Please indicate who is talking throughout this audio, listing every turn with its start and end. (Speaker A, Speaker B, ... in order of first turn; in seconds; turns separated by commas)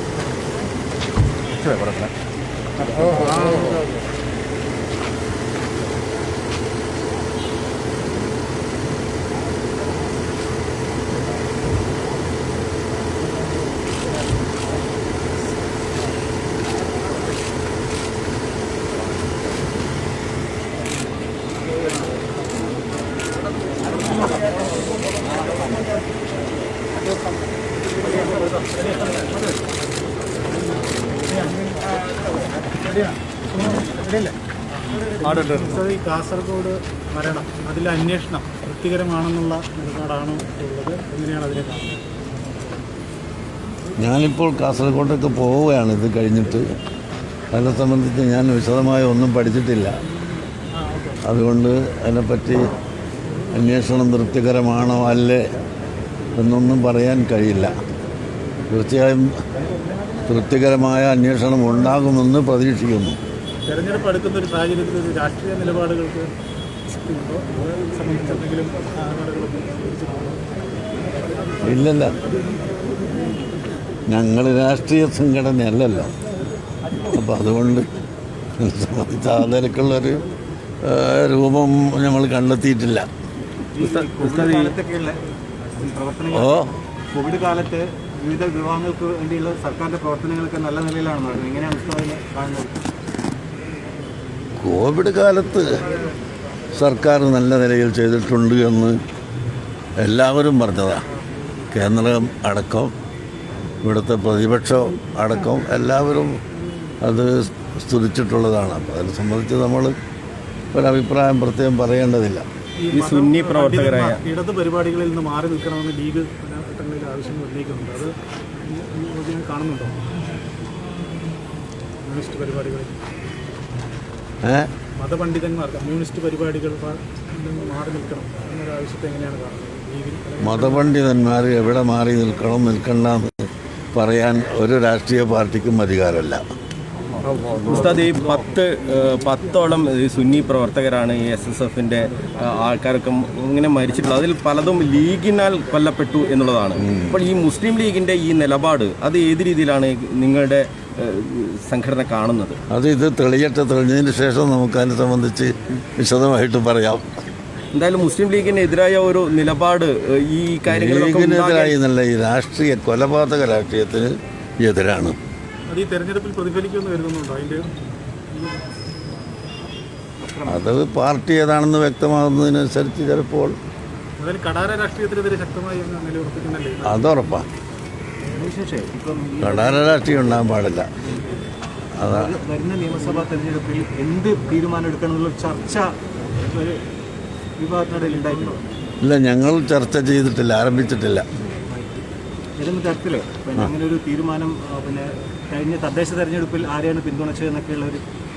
Speaker A: 1.6-2.1, Speaker B: 28.0-29.4, Speaker B: 31.2-31.9, Speaker B: 32.7-34.3, Speaker B: 35.2-42.1, Speaker C: 44.0-46.7, Speaker C: 47.5-50.0, Speaker B: 50.8-51.2, Speaker C: 51.2-52.7, Speaker C: 53.5-55.5, Speaker C: 56.4-57.7, Speaker C: 58.7-59.4, Speaker C: 60.3-63.2, Speaker B: 63.7-66.3, Speaker B: 66.9-70.4, Speaker C: 71.6-72.2, Speaker C: 74.1-76.1, Speaker C: 77.1-77.9, Speaker C: 78.6-80.2, Speaker C: 80.8-83.1, Speaker D: 83.7-85.2, Speaker A: 84.2-84.7, Speaker D: 85.8-92.7, Speaker C: 86.3-86.7, Speaker C: 94.6-95.8, Speaker C: 96.8-99.0, Speaker C: 100.0-101.0, Speaker C: 101.7-102.9, Speaker C: 103.8-106.4, Speaker C: 107.0-110.0, Speaker C: 110.7-112.4, Speaker B: 112.8-120.0, Speaker A: 112.9-114.2, Speaker B: 122.0-123.0, Speaker C: 124.4-124.7, Speaker B: 125.0-130.9, Speaker C: 130.4-136.4, Speaker A: 137.5-152.6, Speaker C: 146.8-147.2, Speaker C: 152.7-157.1, Speaker A: 157.7-161.8, Speaker C: 160.7-165.2, Speaker B: 165.7-167.7, Speaker D: 170.2-170.7, Speaker C: 170.5-173.6, Speaker B: 174.2-177.0, Speaker C: 176.8-177.4, Speaker D: 178.3-180.4, Speaker C: 179.4-180.9, Speaker C: 182.0-182.4, Speaker D: 182.0-186.8, Speaker D: 187.6-188.6, Speaker C: 189.0-191.2, Speaker D: 191.7-192.0, Speaker D: 192.6-198.0